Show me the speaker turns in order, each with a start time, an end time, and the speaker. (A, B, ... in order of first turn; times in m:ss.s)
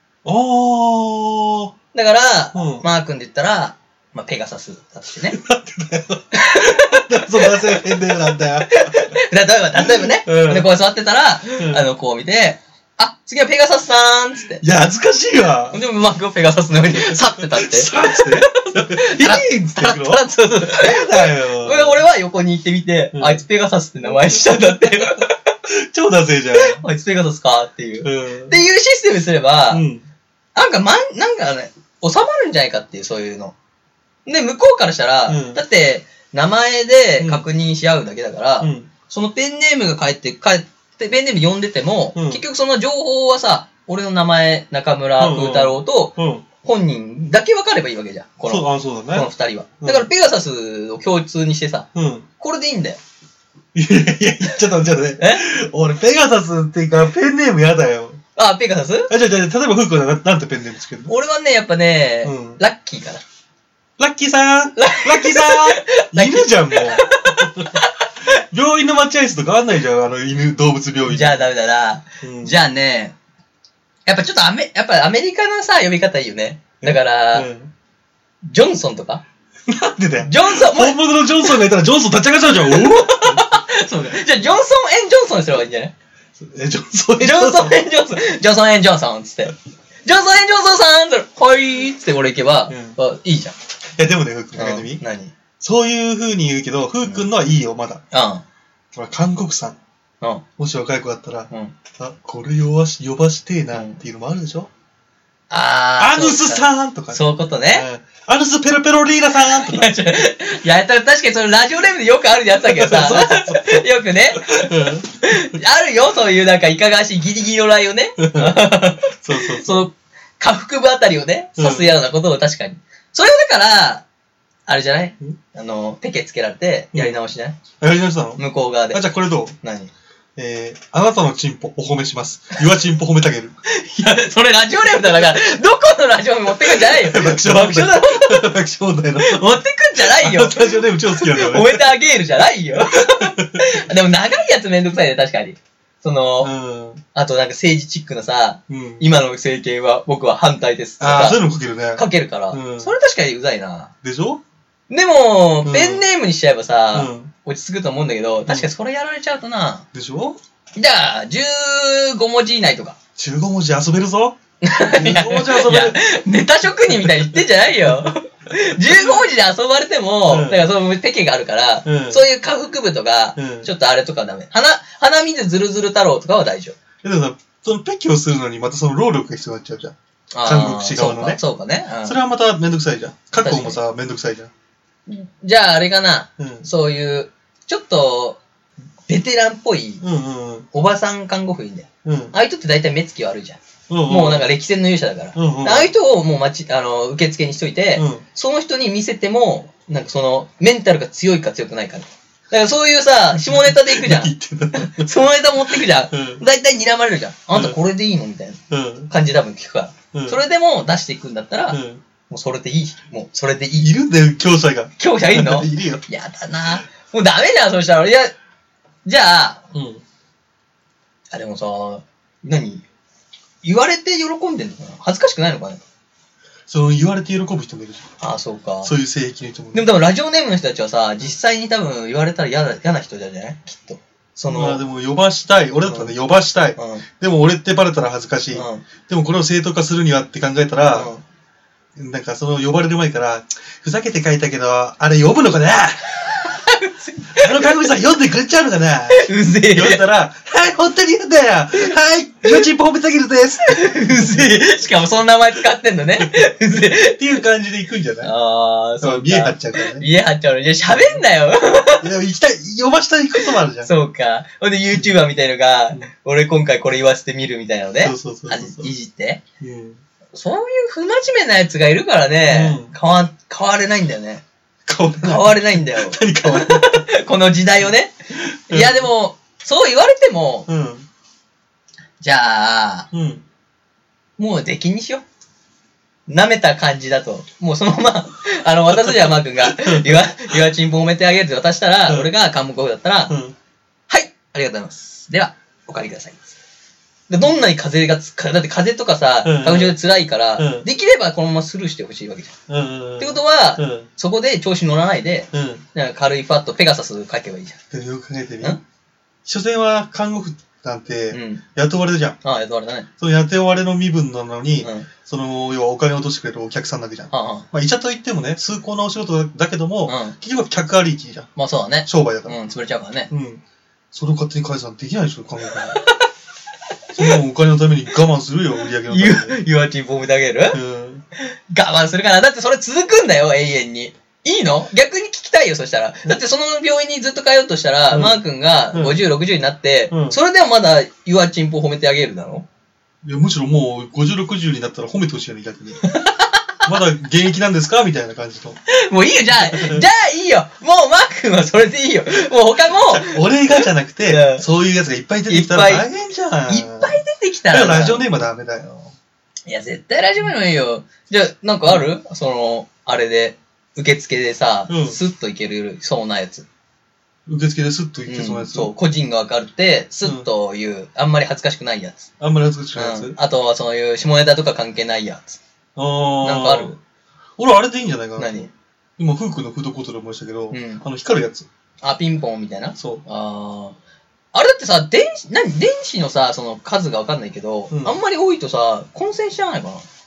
0:00.2-0:01.7 A
0:01.9-0:05.4 B
0:02.5-0:02.9 A
0:05.3-0:09.2 A
0:06.3-0:14.6 B
0:09.8-0:10.7 A
0:11.6-0:11.8 A
0:14.6-0:15.8 A
0:15.7-0:25.4 B
0:16.9-0:22.0 A
0:23.1-0:23.4 A
0:24.1-0:26.8 A
0:26.5-0:29.8 B
0:28.0-0:28.6 A
0:29.7-0:30.0 A
0:30.6-0:33.6 B
0:34.3-0:51.9 B
0:35.3-0:35.6 A
0:37.2-0:37.5 A
0:38.6-0:38.9 A
0:42.2-0:42.4 A
0:45.2-0:46.4 A
0:48.5-0:49.3 A
0:49.8-0:50.1 A
0:52.0-0:52.3 A
0:52.4-0:53.0 B
0:53.7-0:58.2 A
0:55.2-0:55.4 B
0:58.4-0:59.1 B
0:59.1-1:01.1 A
1:01.1-1:03.2 B
1:02.2-1:02.6 A
1:04.0-1:11.4 A
1:04.8-1:08.0 B
1:11.0-1:13.2 B
1:12.2-1:12.6 A
1:14.1-1:17.5 B
1:16.8-1:17.7 A
1:18.4-1:19.2 B
1:19.7-1:23.5 A
1:20.2-1:21.5 B
1:22.6-1:25.9 B
1:26.4-1:27.8 A
1:27.2-1:29.5 B
1:30.0-1:33.6 B
1:32.7-1:33.0 A
1:34.0-1:35.0 A
1:34.6-1:35.3 B
1:35.6-1:38.0 A
1:38.1-1:38.4 B
1:38.9-1:39.8 A
1:40.6-1:44.7 A
1:41.5-1:41.8 B
1:43.7-1:44.0 B
1:45.5-1:47.9 B
1:46.0-1:49.9 A
1:49.4-2:04.1 B
1:52.6-1:55.5 A
1:58.2-1:59.9 A
2:01.6-2:01.9 A
2:04.7-2:07.6 B
2:06.9-2:07.2 A
2:07.8-2:09.6 A
2:08.4-2:09.1 B
2:09.6-2:09.9 B
2:10.4-2:13.6 A
2:13.7-2:18.5 B
2:16.6-2:21.9 A
2:19.2-2:26.5 B
2:22.9-2:23.8 A
2:26.4-2:27.0 A
2:27.1-2:31.4 B
2:28.7-2:29.1 A
2:31.0-2:32.9 A
2:32.0-2:33.9 B
2:34.0-2:34.4 A
2:34.9-2:39.9 B
2:35.6-2:36.1 A
2:36.9-2:37.3 A
2:39.9-2:40.4 A
2:40.8-2:43.0 B
2:43.2-2:46.0 A
2:44.6-2:56.8 B
2:46.9-2:48.1 A
2:50.3-2:50.7 A
2:51.8-2:52.2 A
2:53.4-2:53.7 A
2:57.0-3:01.4 A
3:00.3-3:02.2 B
3:02.0-3:04.5 A
3:03.4-3:03.8 B
3:05.1-3:08.4 B
3:06.4-3:06.7 A
3:09.1-3:10.0 B
3:10.0-3:10.7 A
3:10.7-3:33.9 B
3:12.0-3:12.3 A
3:13.9-3:14.5 A
3:15.4-3:15.9 A
3:18.0-3:18.2 A
3:23.4-3:25.2 A
3:25.8-3:26.4 A
3:28.7-3:29.1 A
3:30.1-3:30.4 A
3:31.7-3:32.0 A
3:33.8-3:36.0 A
3:35.0-3:38.3 B
3:39.0-3:39.7 B
3:39.7-3:40.0 A
3:41.3-3:42.8 B
3:43.6-3:45.8 B
3:46.7-3:48.1 A
3:48.2-3:48.9 B
3:48.8-3:49.8 A
3:49.7-3:54.8 B
3:54.5-4:01.1 A
3:55.9-3:56.1 B
3:56.8-3:57.0 B
3:58.5-3:58.8 B
4:00.9-4:01.2 B
4:02.0-4:06.3 A
4:06.4-4:07.8 B
4:07.4-4:14.6 A
4:09.1-4:10.0 B
4:13.7-4:17.2 B
4:16.2-4:18.3 A
4:18.2-4:22.1 B
4:19.0-4:20.1 A
4:20.9-4:21.2 A
4:22.0-4:23.9 A
4:23.4-4:29.4 B
4:28.0-4:28.9 A
4:29.6-4:30.0 A
4:30.4-4:34.4 B
4:32.5-4:32.9 A
4:34.9-4:37.1 A
4:35.2-4:38.2 B
4:38.4-4:39.1 A
4:38.7-4:40.7 B
4:40.7-4:41.1 A
4:42.2-4:43.1 B
4:43.1-4:43.4 A
4:44.4-4:45.2 B
4:46.3-4:53.4 B
4:49.0-4:50.6 A
4:53.3-4:53.6 A
4:54.1-4:56.6 B
4:57.3-5:02.6 B
4:59.4-5:00.0 A
5:00.6-5:00.9 A
5:02.7-5:04.1 A
5:03.2-5:07.8 B
5:05.5-5:05.8 A
5:07.9-5:08.8 A
5:09.5-5:12.4 A
5:11.3-5:11.6 B
5:12.4-5:13.1 B
5:13.2-5:21.5 A
5:14.8-5:15.1 B
5:17.3-5:17.7 B
5:20.1-5:20.4 B
5:21.6-5:23.3 B
5:22.1-5:22.6 A
5:23.3-5:26.0 A
5:25.9-5:26.2 B
5:27.1-5:29.6 A
5:29.1-5:30.8 B
5:30.7-5:31.2 A
5:31.4-5:42.7 B
5:38.1-5:39.2 A
5:40.1-5:40.4 A
5:43.2-5:46.0 A
5:46.0-5:46.6 B
5:46.8-5:48.8 A
5:48.9-5:54.6 B
5:49.6-5:50.0 A
5:53.0-5:59.2 A
5:55.5-5:56.1 B
5:56.7-5:58.2 B
5:59.7-6:06.7 B
6:04.9-6:05.2 A
6:07.5-6:08.9 A
6:08.3-6:12.3 B
6:12.4-6:13.4 A
6:13.0-6:15.6 B
6:16.0-6:17.0 A
6:16.4-6:17.0 B
6:17.6-6:21.7 A
6:18.4-6:18.7 B
6:20.7-6:21.0 B
6:22.0-6:24.0 B
6:23.0-6:23.2 A
6:24.5-6:30.0 B
6:27.9-6:28.2 A